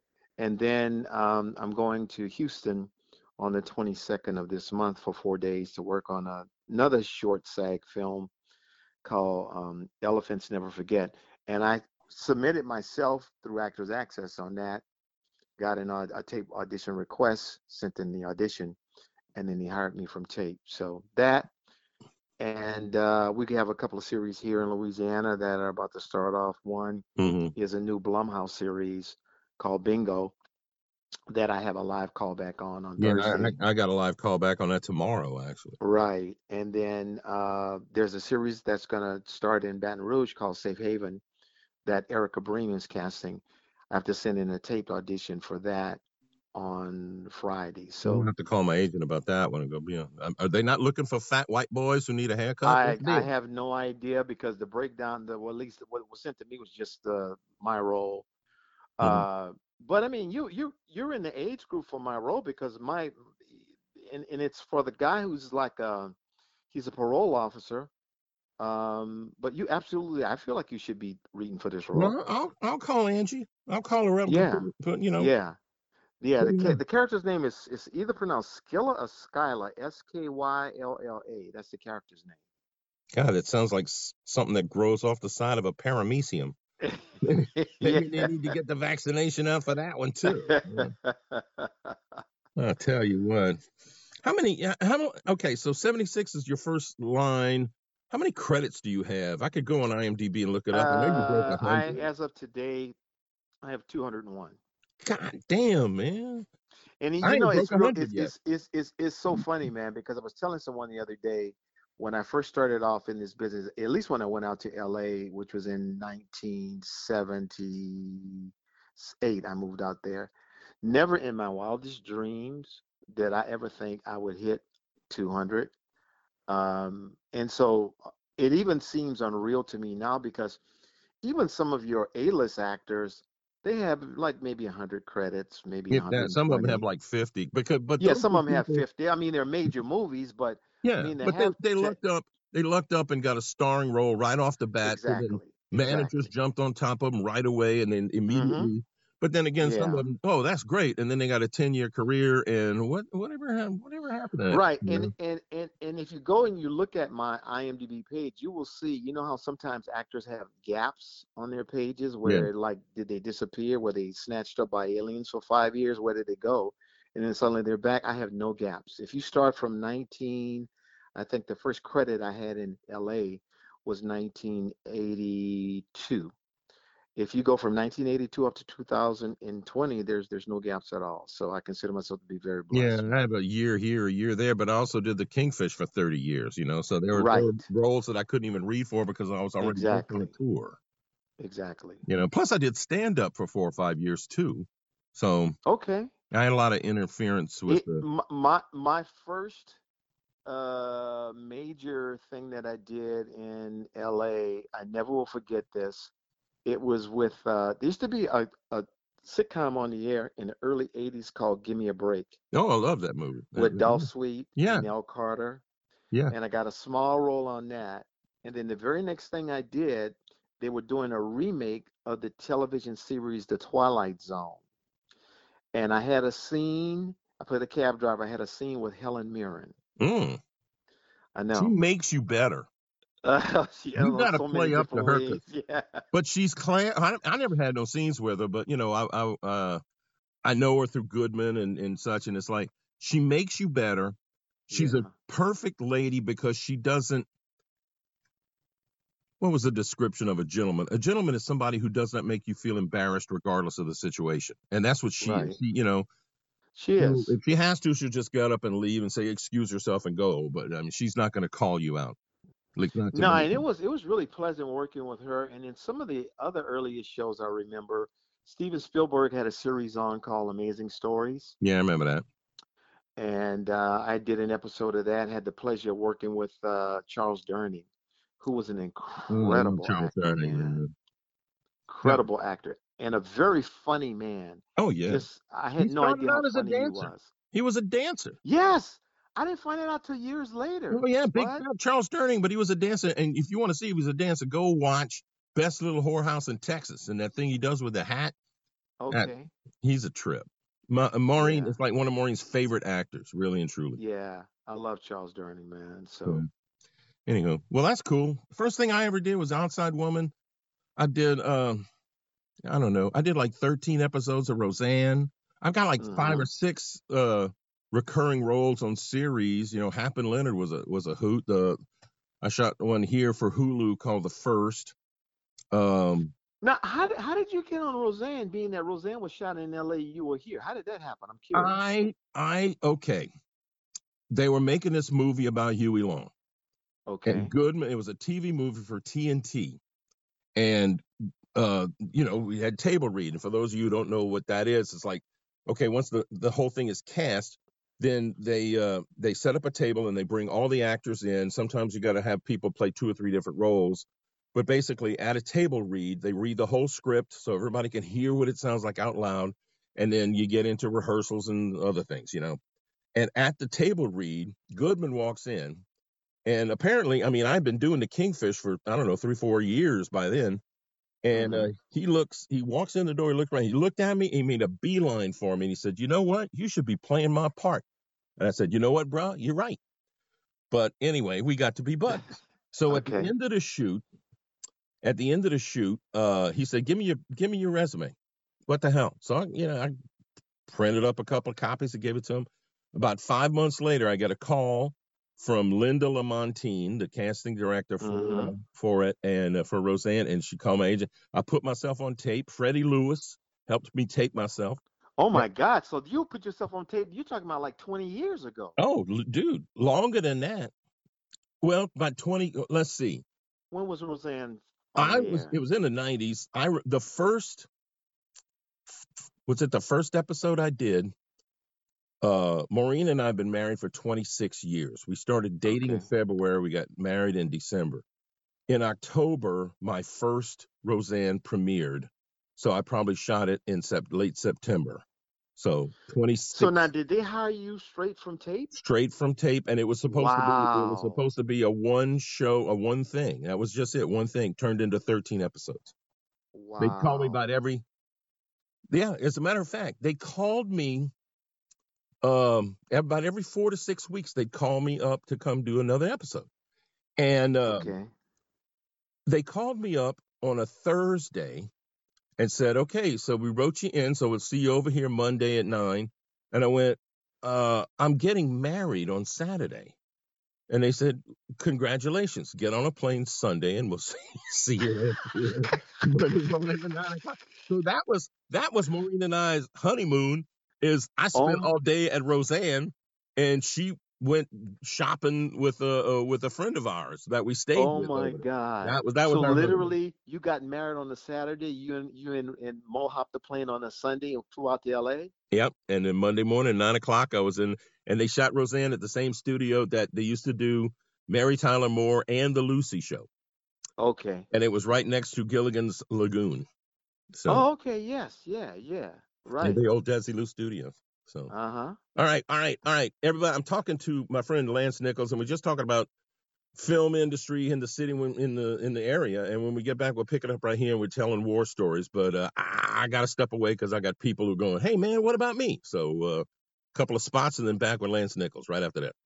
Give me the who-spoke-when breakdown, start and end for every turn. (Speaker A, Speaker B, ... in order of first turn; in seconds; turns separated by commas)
Speaker A: 0.4-8.3, Speaker A: 9.0-14.8, Speaker A: 15.6-18.8, Speaker A: 19.3-21.5, Speaker A: 22.4-30.4, Speaker B: 27.2-27.5, Speaker A: 31.3-33.5, Speaker B: 33.0-35.8, Speaker A: 35.8-41.2, Speaker A: 41.9-46.0, Speaker A: 46.5-48.3, Speaker B: 48.0-53.3, Speaker A: 52.6-58.3, Speaker A: 59.0-63.4, Speaker B: 59.0-59.3, Speaker A: 63.9-66.2, Speaker A: 66.7-67.9, Speaker A: 68.6-72.1, Speaker B: 71.9-75.3, Speaker A: 74.3-75.6, Speaker A: 76.2-82.4, Speaker B: 76.4-76.8, Speaker B: 83.1-86.6, Speaker A: 86.8-88.5, Speaker B: 87.2-90.9, Speaker A: 90.2-92.2, Speaker B: 92.6-93.6, Speaker B: 94.2-102.1, Speaker A: 100.7-103.0, Speaker A: 103.6-104.6, Speaker B: 105.0-106.5, Speaker A: 107.0-120.3, Speaker B: 107.2-108.3, Speaker A: 120.8-125.7, Speaker A: 126.5-130.6, Speaker A: 131.2-136.8, Speaker B: 135.9-138.9, Speaker A: 138.0-142.0, Speaker B: 140.8-155.1, Speaker A: 144.8-146.3, Speaker A: 148.3-148.7, Speaker A: 149.6-150.1, Speaker A: 154.5-176.3, Speaker B: 162.2-162.5, Speaker A: 177.2-183.1, Speaker B: 182.7-190.8, Speaker A: 187.2-187.7, Speaker A: 189.6-190.3, Speaker A: 191.4-192.0, Speaker B: 192.1-195.6, Speaker A: 195.7-196.1, Speaker B: 196.3-198.1, Speaker A: 197.7-199.8, Speaker A: 200.5-206.1, Speaker A: 206.7-212.4, Speaker B: 212.5-214.9, Speaker A: 213.6-215.6, Speaker A: 216.3-224.6, Speaker A: 225.7-229.7, Speaker B: 230.0-230.4, Speaker A: 231.3-231.7, Speaker B: 231.5-232.7, Speaker A: 233.2-236.0, Speaker B: 234.0-235.4, Speaker B: 236.1-239.8, Speaker B: 240.4-244.2, Speaker B: 244.7-247.3, Speaker A: 244.7-245.1, Speaker B: 249.4-256.1, Speaker A: 255.2-255.6, Speaker A: 256.8-257.3, Speaker B: 257.0-262.2, Speaker B: 262.8-263.6, Speaker A: 263.1-271.6, Speaker B: 271.6-272.2, Speaker A: 273.2-277.9, Speaker A: 278.4-280.8, Speaker B: 279.3-280.9, Speaker A: 281.9-287.3, Speaker B: 284.8-285.3, Speaker B: 285.8-288.4, Speaker A: 288.4-291.6, Speaker B: 290.9-298.4, Speaker A: 299.0-299.5, Speaker B: 299.1-304.0, Speaker A: 301.4-301.8, Speaker A: 304.0-306.4, Speaker B: 307.3-310.3, Speaker B: 311.0-311.8, Speaker B: 312.6-321.8, Speaker A: 316.0-316.5, Speaker B: 322.4-324.9, Speaker B: 325.7-326.3, Speaker A: 326.6-331.8, Speaker B: 331.5-333.3, Speaker B: 334.3-336.3, Speaker A: 337.1-337.5, Speaker B: 337.3-339.8, Speaker B: 340.6-341.0, Speaker B: 341.5-362.6, Speaker B: 363.1-365.8, Speaker B: 366.4-370.6, Speaker B: 371.2-377.9, Speaker A: 371.3-371.7, Speaker B: 378.4-379.8, Speaker B: 380.7-384.0, Speaker A: 382.9-383.3, Speaker B: 385.0-388.2, Speaker B: 388.7-389.9, Speaker B: 390.7-404.8, Speaker A: 398.0-398.5, Speaker A: 405.2-408.8, Speaker B: 408.8-410.7, Speaker B: 411.6-413.2, Speaker A: 413.7-415.5, Speaker B: 415.0-417.7, Speaker B: 419.5-421.1, Speaker B: 422.2-428.1, Speaker A: 425.7-426.1, Speaker B: 428.7-435.1, Speaker B: 435.6-436.7, Speaker A: 436.5-438.7, Speaker B: 438.7-445.9, Speaker A: 440.1-441.2, Speaker A: 446.5-447.4, Speaker B: 446.8-447.9, Speaker B: 448.9-451.1, Speaker B: 452.2-456.5, Speaker B: 457.2-457.9, Speaker A: 457.7-458.1, Speaker B: 459.3-461.7, Speaker B: 462.4-470.0, Speaker B: 470.7-489.9, Speaker A: 475.7-476.2, Speaker A: 481.4-481.7, Speaker A: 487.8-495.3, Speaker B: 495.5-503.3, Speaker A: 504.0-504.5, Speaker B: 504.5-506.7, Speaker B: 507.3-507.6, Speaker A: 507.5-509.8, Speaker B: 509.6-511.5, Speaker A: 511.5-512.0, Speaker B: 512.1-516.1, Speaker B: 516.8-529.1